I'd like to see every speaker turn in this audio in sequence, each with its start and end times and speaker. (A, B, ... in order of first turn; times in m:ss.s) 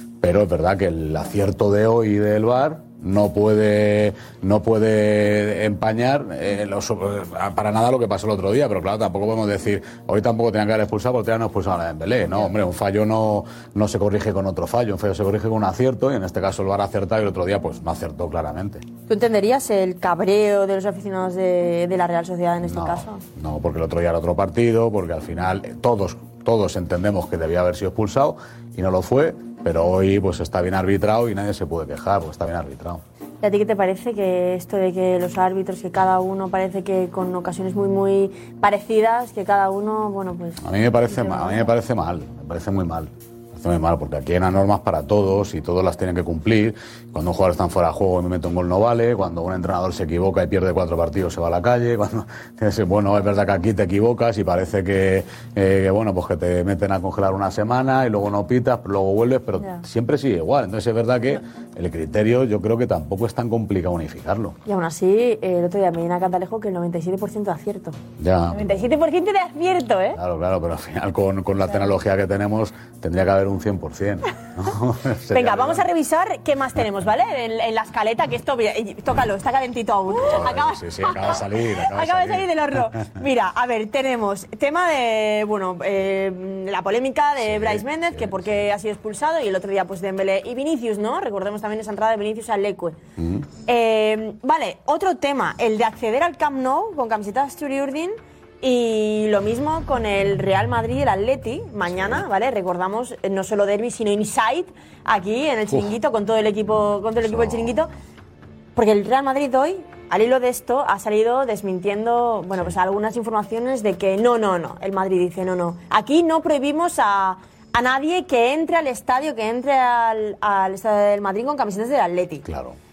0:00.2-0:18.8 A
0:19.1-0:23.2 B
0:22.6-0:33.0 A
0:33.4-0:41.7 B
0:40.6-1:04.6 A
1:04.6-1:08.0 B
1:08.2-1:08.7 A
1:08.5-1:10.2 B
1:10.1-1:15.8 A
1:15.3-1:33.0 B
1:20.2-1:22.5 A
1:27.4-1:28.5 A
1:33.2-1:33.4 A
1:33.6-1:47.9 B
1:48.7-2:02.4 B
2:02.4-2:02.8 A